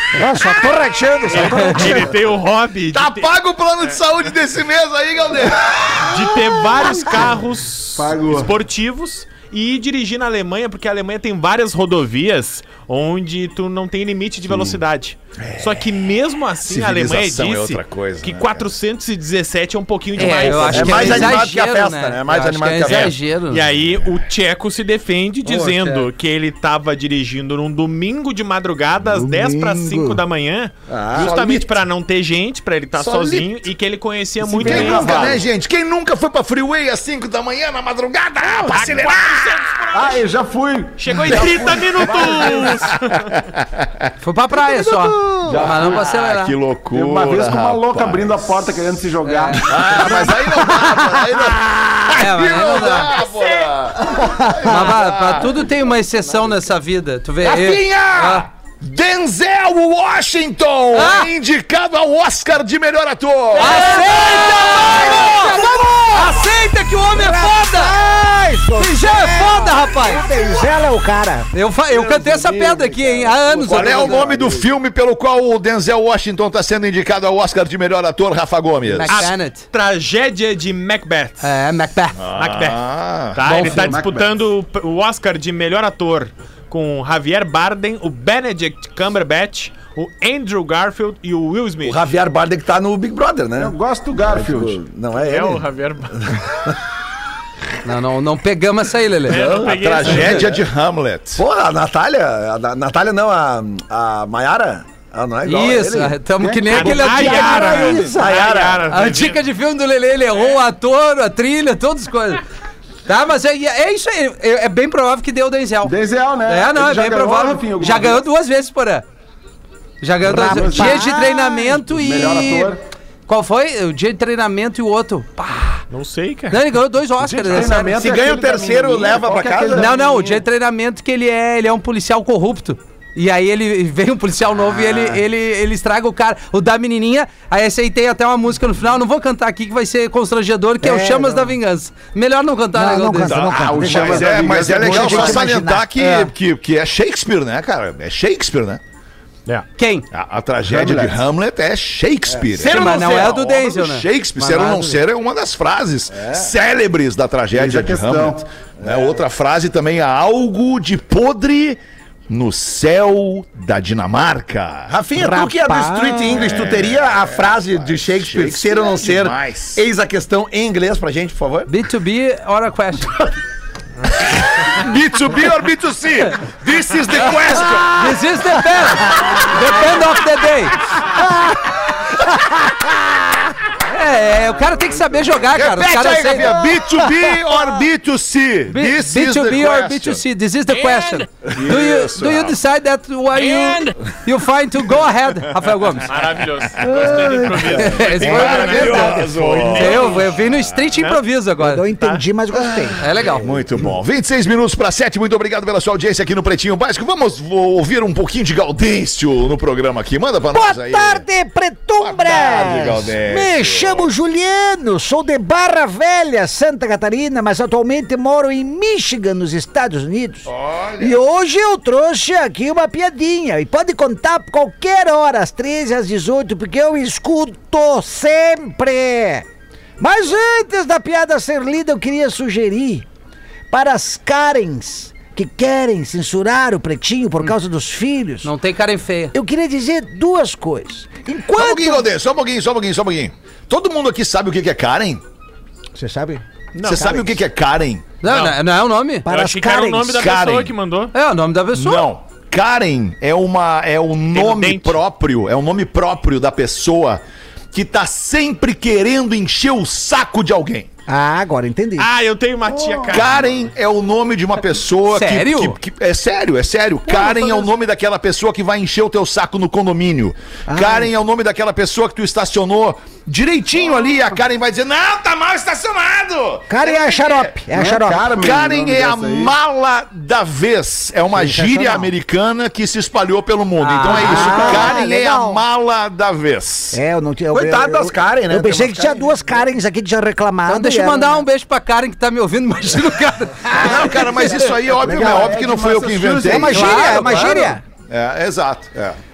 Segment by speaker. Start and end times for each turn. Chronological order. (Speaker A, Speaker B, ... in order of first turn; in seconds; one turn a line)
Speaker A: 0.1-2.1
Speaker B: 1.3-3.3
Speaker C: 1.4-1.9
Speaker D: 2.9-7.3
Speaker B: 6.0-21.4
Speaker A: 6.9-7.3
Speaker E: 8.0-8.5
Speaker E: 14.5-14.7
Speaker D: 15.4-15.9
Speaker D: 16.6-18.7
Speaker C: 20.2-23.6
Speaker F: 20.7-23.2
Speaker B: 23.5-35.4
Speaker A: 29.1-30.2
Speaker F: 30.9-31.4
Speaker D: 31.1-31.8
Speaker D: 33.0-33.6
Speaker E: 34.4-35.4
Speaker D: 34.6-39.8
Speaker B: 38.7-40.2
Speaker E: 39.9-42.7
Speaker B: 41.0-43.3
Speaker D: 42.1-44.1
Speaker C: 44.2-46.5
Speaker A: 44.5-45.6
Speaker E: 45.5-45.8
Speaker D: 45.5-48.9
Speaker E: 46.9-50.2
Speaker C: 49.2-51.1
Speaker D: 49.6-55.5
Speaker C: 52.1-53.1
Speaker A: 54.0-54.9
Speaker C: 54.6-58.5
Speaker D: 57.4-65.9
Speaker C: 60.9-61.3
Speaker A: 63.5-66.5
Speaker C: 63.5-67.9
Speaker A: 67.1-71.5
Speaker C: 68.8-70.3
Speaker C: 71.5-74.2
Speaker F: 71.9-74.7
Speaker D: 73.7-79.3
Speaker C: 78.9-79.6
Speaker B: 79.1-81.5
Speaker C: 81.4-82.2
Speaker D: 82.2-83.7
Speaker B: 82.3-92.0
Speaker C: 83.4-84.0
Speaker E: 83.9-84.3
Speaker F: 91.8-93.7
Speaker E: 93.6-94.8
Speaker F: 94.2-95.6
Speaker B: 95.2-96.5
Speaker C: 97.8-99.4
Speaker F: 99.3-99.7
Speaker B: 99.3-100.5
Speaker D: 99.6-101.4
Speaker F: 101.4-106.2
Speaker C: 105.5-108.0
Speaker E: 106.4-107.2
Speaker B: 106.7-109.4
Speaker A: 106.8-108.4
Speaker F: 108.0-108.9
Speaker C: 108.8-112.4
Speaker C: 113.1-115.9
Speaker E: 115.8-118.2
Speaker C: 116.5-119.0
Speaker C: 120.0-122.7
Speaker E: 120.2-121.0
Speaker A: 120.2-121.8
Speaker E: 121.8-122.8
Speaker C: 123.3-125.8
Speaker B: 125.9-126.6
Speaker C: 126.5-128.0
Speaker E: 127.2-130.4
Speaker F: 127.6-129.9
Speaker C: 129.7-143.4
Speaker A: 140.8-141.5
Speaker A: 142.7-146.1
Speaker D: 143.2-148.8
Speaker E: 143.6-144.4
Speaker F: 143.8-145.6
Speaker C: 146.0-146.3
Speaker C: 149.8-150.0
Speaker D: 150.1-164.9
Speaker E: 150.6-151.2
Speaker F: 152.3-153.3
Speaker C: 152.6-155.0
Speaker E: 157.5-158.4
Speaker F: 158.8-159.1
Speaker F: 164.9-171.7
Speaker A: 165.2-166.6
Speaker D: 166.3-169.8
Speaker C: 171.7-173.1
Speaker D: 174.2-179.4
Speaker C: 177.1-180.8
Speaker A: 179.1-179.4
Speaker A: 181.1-181.7
Speaker C: 183.9-186.5
Speaker D: 185.5-190.2
Speaker A: 186.2-187.8
Speaker C: 188.7-196.1
Speaker D: 191.4-192.6
Speaker B: 196.1-200.3
Speaker D: 196.5-197.3
Speaker C: 197.7-201.8
Speaker D: 198.1-200.8
Speaker A: 198.2-199.3
Speaker B: 201.0-201.2
Speaker A: 201.6-203.0
Speaker B: 201.9-202.2
Speaker D: 202.5-211.2
Speaker C: 203.0-203.5
Speaker A: 210.5-229.5
Speaker D: 212.0-214.1
Speaker D: 220.4-221.2
Speaker A: 230.0-233.1
Speaker A: 233.7-238.5
Speaker C: 238.4-239.3
Speaker A: 239.3-242.1
Speaker D: 241.5-245.2
Speaker A: 245.9-247.3
Speaker B: 246.7-247.1
Speaker D: 246.8-248.0
Speaker C: 248.2-249.2
Speaker B: 248.2-248.6
Speaker A: 249.2-250.3
Speaker B: 249.3-251.1
Speaker D: 250.1-250.7
Speaker C: 251.1-252.1
Speaker D: 251.7-257.2
Speaker B: 254.3-255.0
Speaker D: 257.7-260.9
Speaker A: 261.1-262.1
Speaker B: 262.0-263.4
Speaker D: 263.1-277.6
Speaker C: 265.1-265.8
Speaker A: 267.1-267.7
Speaker A: 270.7-271.1
Speaker A: 276.7-278.5
Speaker E: 277.7-279.5
Speaker D: 278.4-287.0
Speaker A: 281.3-282.1
Speaker C: 283.8-284.9
Speaker A: 284.0-285.6
Speaker E: 284.4-284.9
Speaker A: 286.9-291.4
Speaker F: 287.5-289.4
Speaker C: 290.7-294.0
Speaker A: 293.7-295.6
Speaker D: 293.7-297.2
Speaker E: 295.0-297.5
Speaker A: 296.4-297.8
Speaker C: 296.6-297.8
Speaker D: 298.1-299.0